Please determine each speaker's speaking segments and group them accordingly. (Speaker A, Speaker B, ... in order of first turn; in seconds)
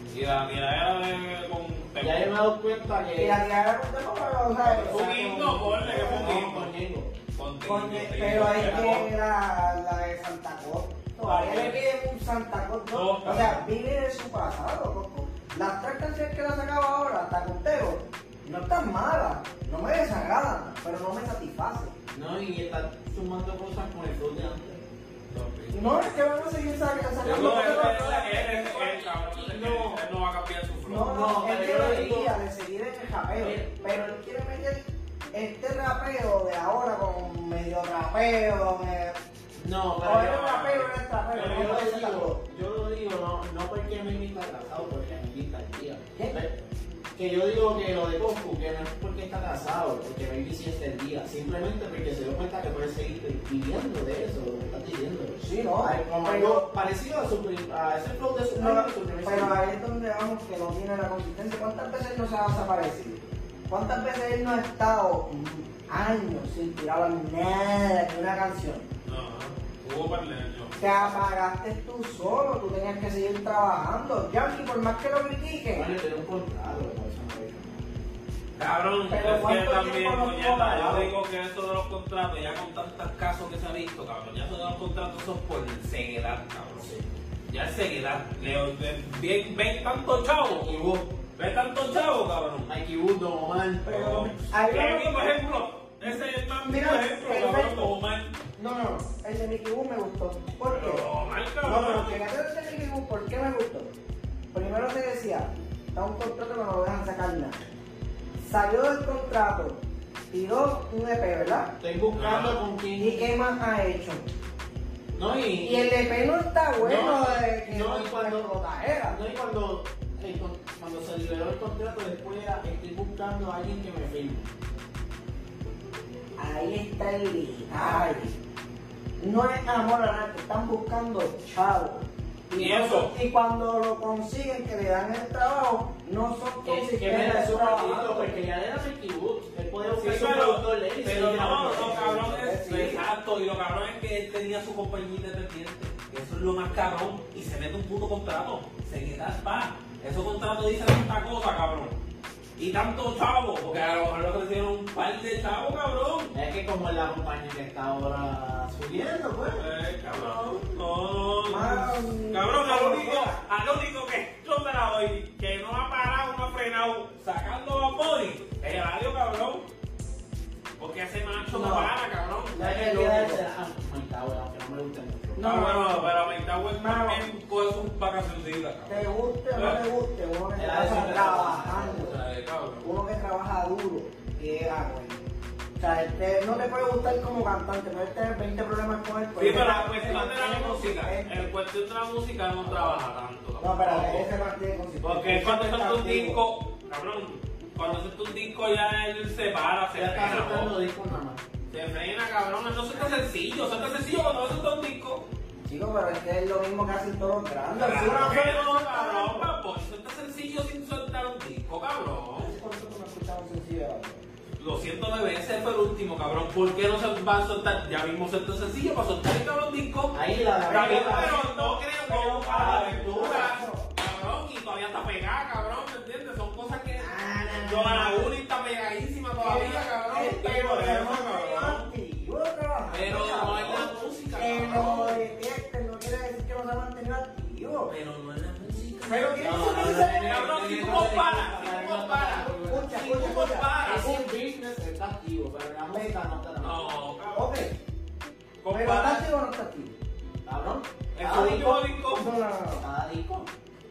Speaker A: 0.1-2.3, 4.9-6.7, 7.3-9.1, 11.2-11.8, 12.9-13.6, 25.3-26.1, 27.2-31.3, 69.1-70.8, 78.6-86.9, 87.5-92.7, 93.9-98.3, 100.7-102.2, 112.1-112.6, 132.5-133.1, 140.0-152.0, 152.6-156.3, 159.6-169.7, 170.8-172.7, 175.4-179.8, 181.8-182.9, 189.4-194.3, 195.0-200.7, 201.7-205.2, 207.8-212.5, 214.6-227.1, 227.6-231.9, 232.9-235.2, 237.9-244.2, 246.6-247.6, 248.6-249.3, 251.2-252.4
Speaker B: 2.0-3.4, 4.6-7.1, 22.1-24.8, 27.2-30.0, 31.0-32.4, 33.4-33.7, 39.5-46.5, 47.1-59.6, 75.7-77.9, 86.8-87.1, 90.6-91.0, 92.7-94.1, 111.8-113.3, 115.1-115.9, 116.8-124.5, 136.6-142.2, 156.3-159.7, 172.6-175.6, 180.6-182.0, 199.9-201.4, 207.9-208.6, 220.1-221.4, 222.3-223.6, 233.0-234.0, 239.4-246.9, 250.4-251.7, 252.7-253.5
Speaker C: 3.2-6.5, 7.7-21.9, 25.7-28.9, 30.9-34.8, 35.3-39.2, 40.0-42.4, 55.4-56.6, 58.6-68.9, 70.8-75.9, 79.1-81.1, 93.8-95.4, 96.0-97.9, 98.6-101.0, 101.6-103.9, 104.5-107.6, 108.4-109.8, 110.3-111.7, 113.0-114.2, 115.6-119.2, 126.4-128.3, 129.2-138.3, 141.6-143.0, 161.5-163.4, 171.5-171.9, 172.5-173.4, 175.4-176.1, 176.8-177.2, 178.9-182.2, 182.8-185.2, 185.8-191.5, 192.7-192.9, 193.6-196.4, 205.7-209.5, 212.4-214.2, 220.7-223.9, 227.0-228.4, 229.4-237.9, 239.1-241.5, 242.6-244.1, 247.3-247.7, 248.7-249.9, 251.2-252.8